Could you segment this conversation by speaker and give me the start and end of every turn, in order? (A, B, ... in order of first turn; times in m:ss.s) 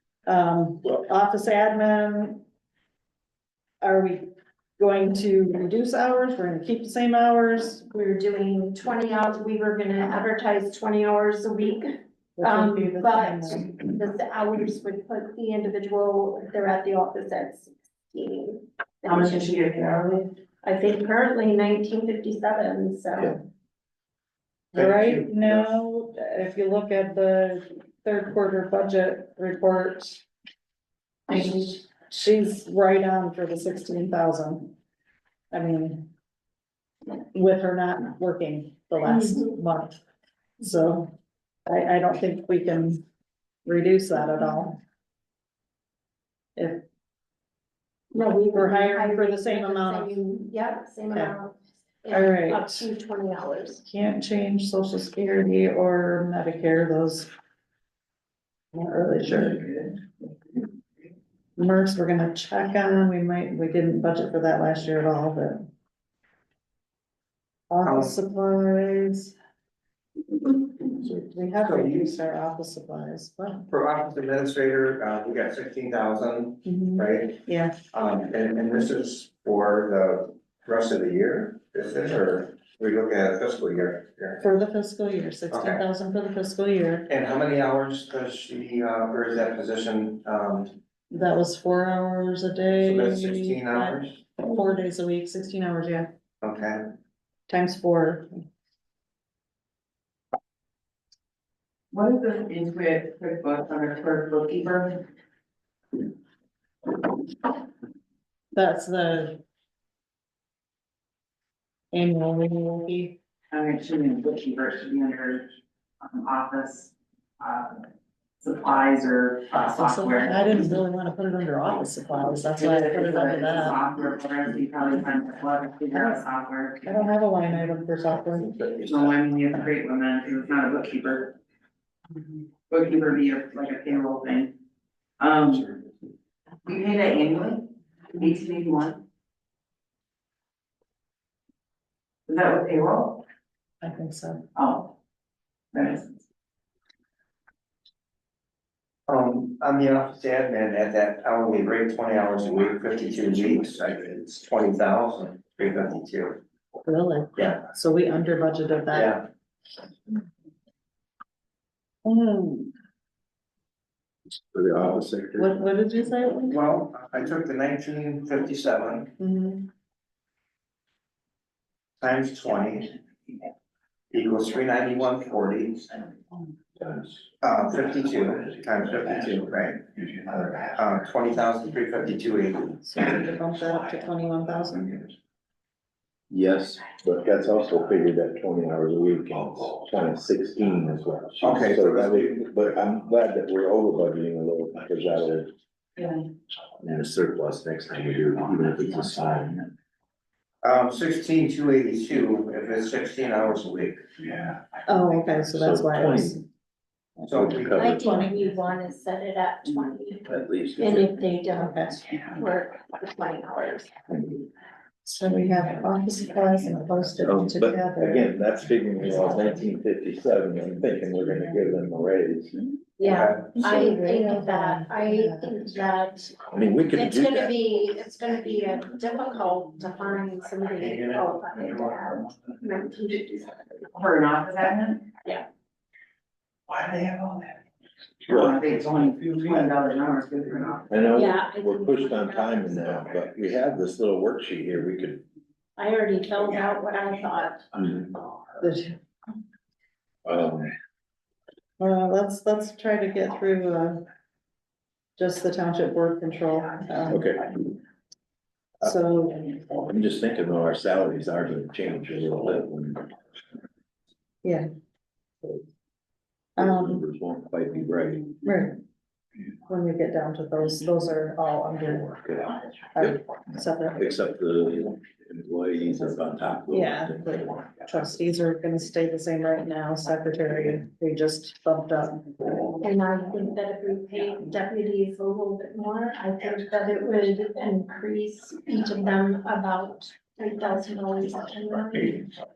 0:00.3-0:02.4 A
0:03.8-0:07.8 A
0:07.9-0:19.8 B
0:12.4-0:13.7 A
0:19.0-0:20.3 C
0:20.6-0:23.4 B
0:24.7-0:30.2 A
0:24.8-0:25.7 D
0:31.3-0:34.7 A
0:35.5-0:36.1 A
0:37.3-0:40.0 A
0:39.1-0:39.5 B
0:40.6-0:41.1 A
0:41.7-0:43.0 A
0:43.6-0:44.8 A
0:46.6-0:46.8 A
0:48.1-0:53.8 B
0:48.5-0:50.2 A
0:52.1-0:52.8 A
0:53.8-0:57.3 A
0:58.7-0:59.9 A
1:01.6-1:05.7 A
1:07.7-1:09.3 A
1:07.8-1:08.2 D
1:11.0-1:13.7 A
1:11.6-1:12.1 D
1:13.7-1:17.4 D
1:16.6-1:17.8 A
1:17.9-1:24.4 D
1:24.4-1:27.1 A
1:25.5-1:25.8 D
1:27.1-1:30.8 D
1:31.1-1:36.1 A
1:32.8-1:34.2 D
1:36.4-1:36.8 D
1:37.5-1:38.4 A
1:41.9-1:45.0 C
1:48.6-1:49.4 A
1:51.9-1:53.2 A
1:53.5-1:55.5 C
1:56.0-1:57.9 C
1:58.4-2:00.7 C
1:59.8-2:03.8 A
2:02.6-2:07.1 C
2:05.9-2:06.2 A
2:06.8-2:08.6 A
2:08.8-2:11.4 C
2:12.7-2:14.5 C
2:15.2-2:15.8 C
2:16.6-2:19.0 C
2:22.3-2:23.2 C
2:23.8-2:24.5 A
2:24.6-2:24.9 C
2:25.7-2:26.2 C
2:29.1-2:36.4 D
2:36.8-2:39.2 A
2:38.9-2:39.2 D
2:42.0-2:42.7 A
2:44.5-2:45.5 E
2:45.4-2:46.6 A
2:46.5-2:49.1 D
2:49.2-2:49.7 A
2:52.0-2:53.0 D
2:54.1-2:55.9 D
2:56.8-2:57.2 E
2:57.4-2:59.8 D
3:00.6-3:02.8 D
3:02.8-3:05.1 A
3:06.3-3:15.5 E
3:11.4-3:12.5 D
3:16.8-3:19.7 E
3:20.6-3:24.0 D
3:24.9-3:26.4 A
3:25.4-3:26.4 E
3:27.2-3:28.5 A
3:27.3-3:27.8 D
3:27.3-3:28.2 E
3:27.8-3:34.1 B
3:30.3-3:31.1 E
3:31.6-3:32.0 A
3:35.0-3:38.4 A
3:37.2-3:42.6 E
3:39.0-3:39.6 A
3:43.0-3:53.7 B
3:43.0-3:43.6 D
3:43.6-3:45.5 A
3:46.5-3:47.5 E
3:50.8-3:52.4 D
3:53.9-3:55.1 C
3:58.3-4:01.0 C
3:58.3-3:58.6 E
4:00.9-4:05.2 E
4:01.1-4:02.8 B
4:05.8-4:07.7 B
4:07.7-4:08.2 E
4:08.6-4:09.0 A
4:10.2-4:10.7 E
4:11.8-4:14.0 A
4:15.2-4:17.3 A
4:17.1-4:17.4 E
4:18.8-4:19.5 A
4:19.6-4:23.1 E
4:24.4-4:24.7 A
4:26.6-4:27.0 A
4:26.6-4:28.3 E
4:28.4-4:28.8 A
4:29.7-4:32.2 A
4:32.1-4:33.2 E
4:33.0-4:34.2 A
4:34.0-4:37.8 E
4:36.7-4:42.3 A
4:42.8-4:52.3 B